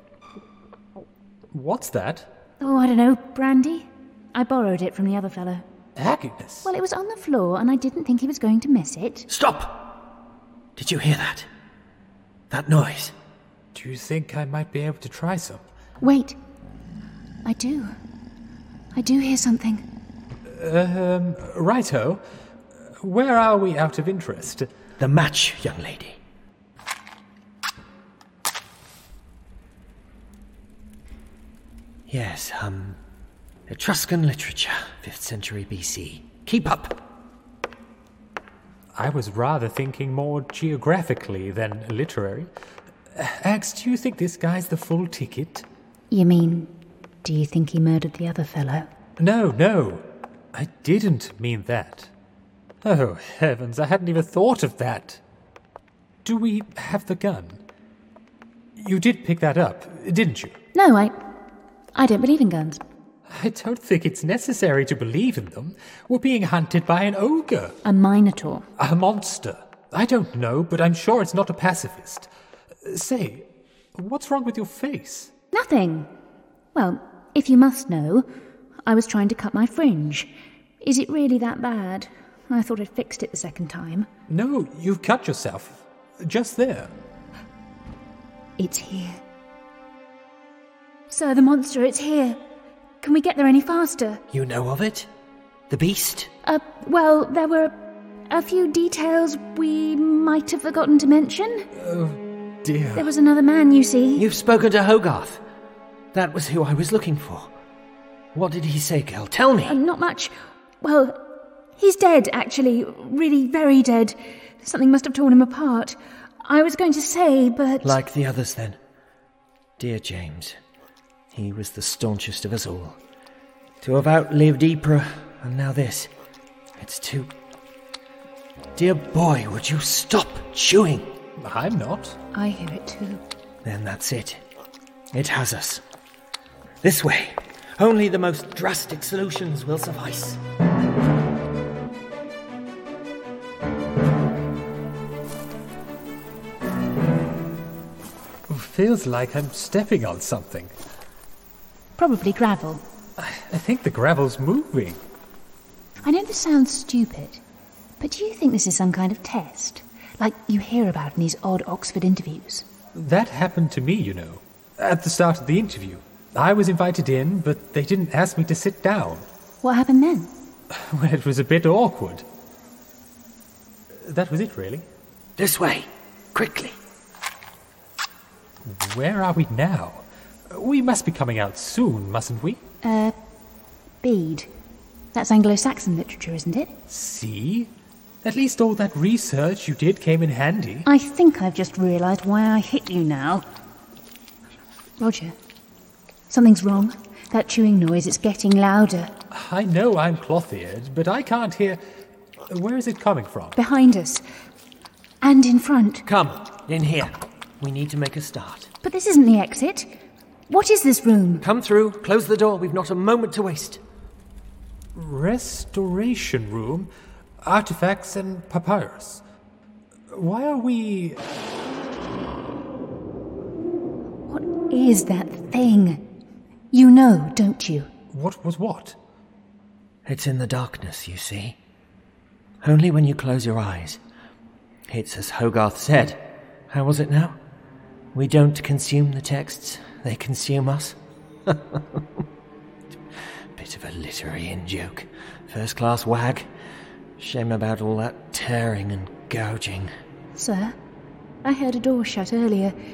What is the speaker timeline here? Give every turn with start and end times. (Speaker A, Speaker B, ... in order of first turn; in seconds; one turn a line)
Speaker A: 1.5-2.3
Speaker B: 2.6-5.7
Speaker A: 6.0-6.7
Speaker B: 6.7-9.3
Speaker C: 9.3-10.0
Speaker C: 10.8-11.5
Speaker C: 12.5-13.1
Speaker A: 13.7-15.6
Speaker B: 16.0-16.4
Speaker B: 17.4-17.9
Speaker B: 18.9-19.8
Speaker A: 20.5-22.2
Speaker A: 23.0-24.7
Speaker C: 25.0-26.2
Speaker C: 32.1-33.0
Speaker C: 33.7-37.0
Speaker A: 39.0-42.5
Speaker A: 43.1-45.7
Speaker B: 46.1-46.7
Speaker B: 47.2-48.9
Speaker A: 49.2-52.1
Speaker A: 52.8-55.2
Speaker A: 56.2-57.6
Speaker A: 58.8-60.6
Speaker B: 60.7-61.2
Speaker B: 62.0-62.8
Speaker A: 63.3-67.8
Speaker B: 67.8-68.7
Speaker A: 68.8-72.3
Speaker A: 72.8-75.3
Speaker B: 75.5-76.1
Speaker B: 76.7-78.3
Speaker B: 78.9-80.3
Speaker B: 80.8-84.1
Speaker A: 84.3-86.9
Speaker B: 88.6-89.2
Speaker B: 91.1-92.4
Speaker B: 93.0-94.2
Speaker C: 94.3-95.1
Speaker C: 95.7-96.3
Speaker B: 96.4-97.8
Speaker B: 98.3-101.7
Speaker A: 101.8-103.1
Speaker B: 103.0-104.3
Speaker C: 104.2-105.4
Speaker C: 106.1-107.5
Speaker C: 108.3-109.8
Speaker B: 109.7-111.2
Speaker B: 111.8-118.0
Speaker C: 117.8-118.8
Speaker C: 119.8-120.6
Speaker C: 121.3-123.0
Speaker C: 123.8-126.1
Speaker C: 126.8-127.3
Speaker C: 128.8-131.1
Speaker A: 131.4-132.2
Speaker B: 132.3-133.2
Speaker C: 133.6-134.4
Speaker C: 135.1-135.8
Speaker C: 136.8-140.4
Speaker A: 148.5-150.7
Speaker B: 152.0-152.8
Speaker A: 153.2-155.0
Speaker B: 156.0-157.4
Speaker B: 158.0-162.7
Speaker A: 162.9-169.3
Speaker B: 169.6-170.3
Speaker A: 170.7-172.3
Speaker A: 173.9-174.9
Speaker C: 175.4-176.8
Speaker A: 178.6-182.6
Speaker B: 182.8-183.2
Speaker B: 184.0-184.5
Speaker B: 185.1-186.7
Speaker A: 186.9-187.7
Speaker A: 188.2-190.9
Speaker B: 190.9-193.4
Speaker B: 195.0-195.3
Speaker B: 196.3-199.1
Speaker A: 199.3-201.8
Speaker A: 202.5-203.6
Speaker B: 203.6-204.2
Speaker B: 205.2-206.0
Speaker C: 206.1-208.7
Speaker B: 208.8-209.9
Speaker B: 210.5-211.4
Speaker C: 211.4-213.8
Speaker A: 214.9-216.9
Speaker A: 217.4-219.2
Speaker A: 220.1-221.3
Speaker B: 224.3-226.0
Speaker B: 226.7-227.9
Speaker A: 228.1-229.0
Speaker C: 230.1-231.6
Speaker C: 232.6-234.0
Speaker C: 234.9-237.4
Speaker C: 238.2-242.0
Speaker C: 243.6-246.5
Speaker C: 247.2-249.9
Speaker B: 250.3-250.8
Speaker B: 251.4-252.8